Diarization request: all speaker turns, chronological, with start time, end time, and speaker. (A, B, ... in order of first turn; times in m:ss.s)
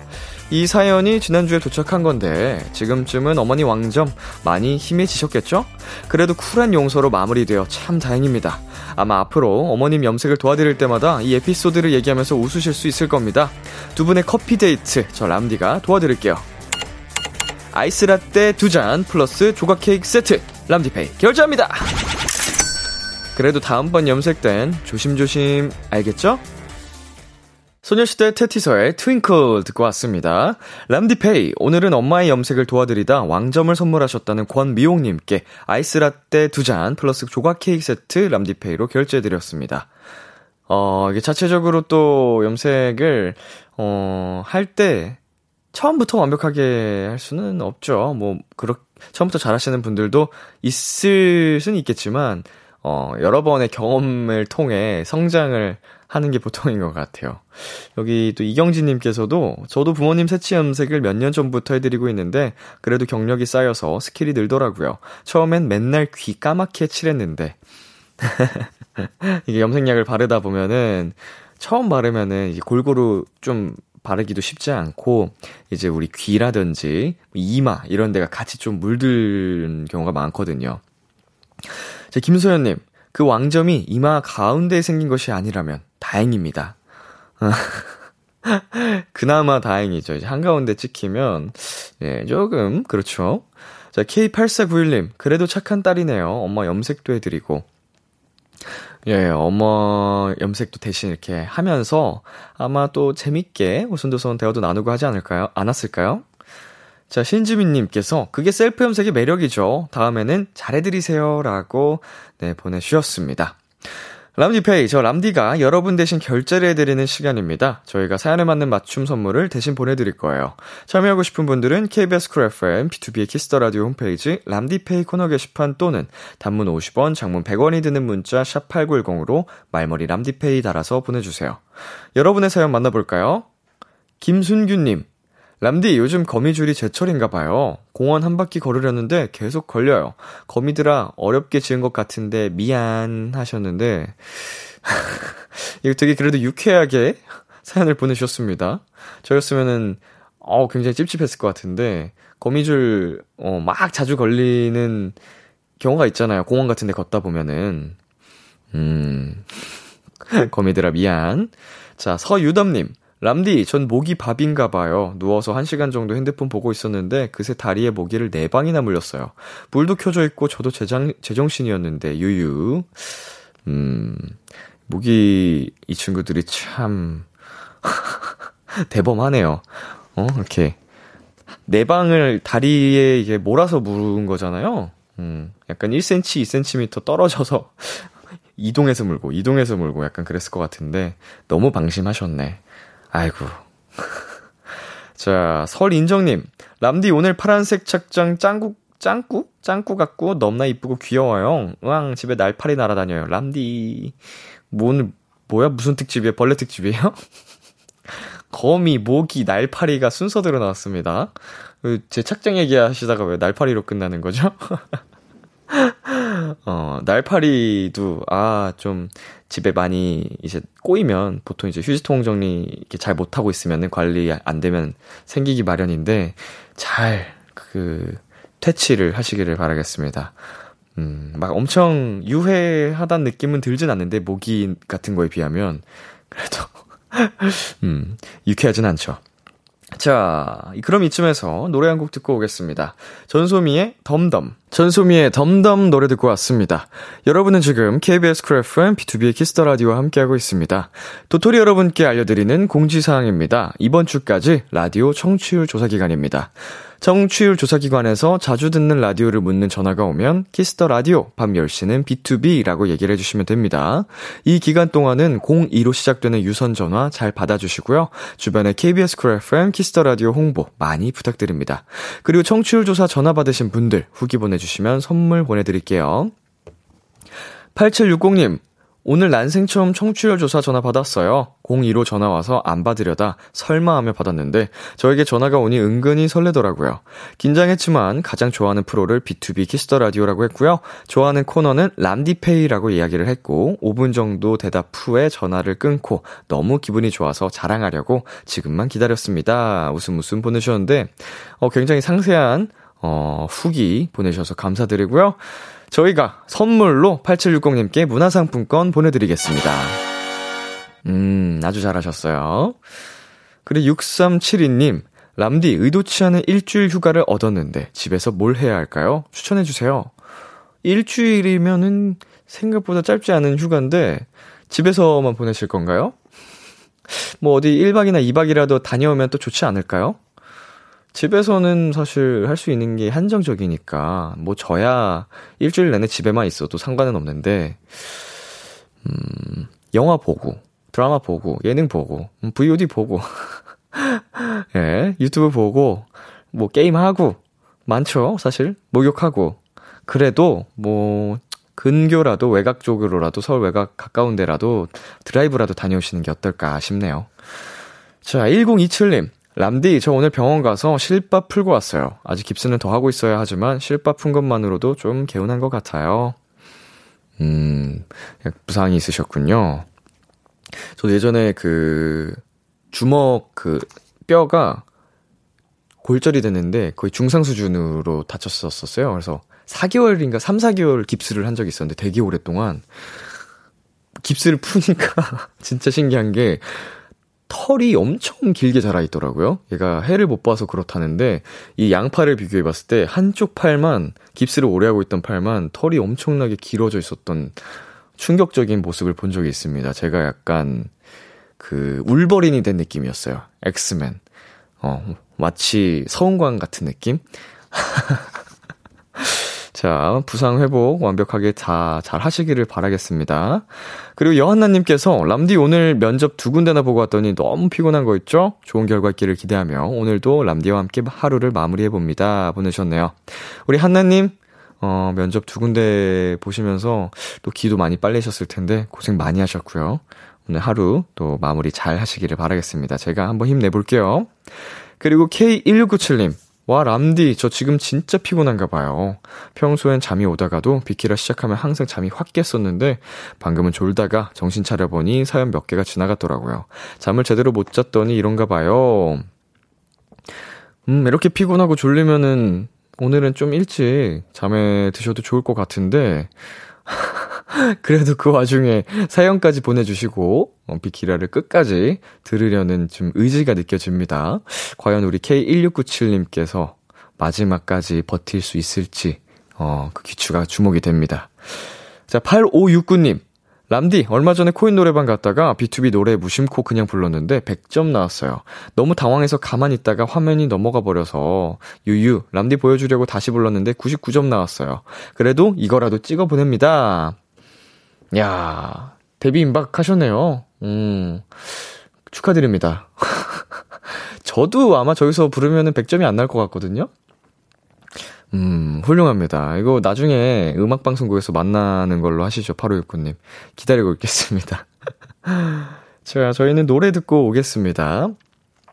0:00.5-0:16.4 A
0:17.7-0:21.9 A
0:23.3-0:26.4 A
0:27.8-0:39.9 A
0:40.7-0:45.2 A
0:45.7-1:07.6 A
1:08.2-1:20.8 A
1:22.1-1:26.8 A
1:27.4-1:37.6 A
1:39.0-1:46.2 A
1:47.1-1:53.6 A
1:54.4-2:11.6 A
2:12.1-2:13.5 A
2:14.2-2:15.0 A
2:15.6-2:35.2 A
2:35.8-2:38.0 A
2:38.7-2:39.5 A
2:40.3-2:54.4 A
2:54.9-2:57.2 A
2:57.8-3:00.8 A
3:01.7-3:12.6 A
3:13.1-3:14.3 A
3:15.2-3:24.1 A
3:24.7-3:27.2 A
3:28.5-3:35.0 A
3:35.7-3:50.3 A
3:51.0-3:59.2 A
3:59.9-4:36.3 A
4:37.7-5:10.0 A
5:11.0-5:12.8 A
5:13.6-5:20.1 A
5:20.8-5:26.1 A
5:27.1-5:30.2 A
5:31.1-5:38.1 A
5:39.0-5:57.3 A
5:58.2-6:06.4 A
6:07.4-6:09.8 A
6:10.9-6:12.4 A
6:12.9-6:14.8 A
6:16.0-6:22.8 A
6:24.2-6:26.9 A
6:27.5-6:37.6 A
6:38.2-6:40.9 A
6:41.6-6:44.2 A
6:44.8-6:48.3 A
6:49.2-7:14.4 A
7:15.0-7:29.2 A
7:30.9-7:36.3 A
7:36.9-7:51.3 A
7:52.1-8:07.2 A
8:08.1-8:13.6 A
8:14.2-8:16.9 A
8:18.3-8:24.7 A
8:25.2-8:28.2 A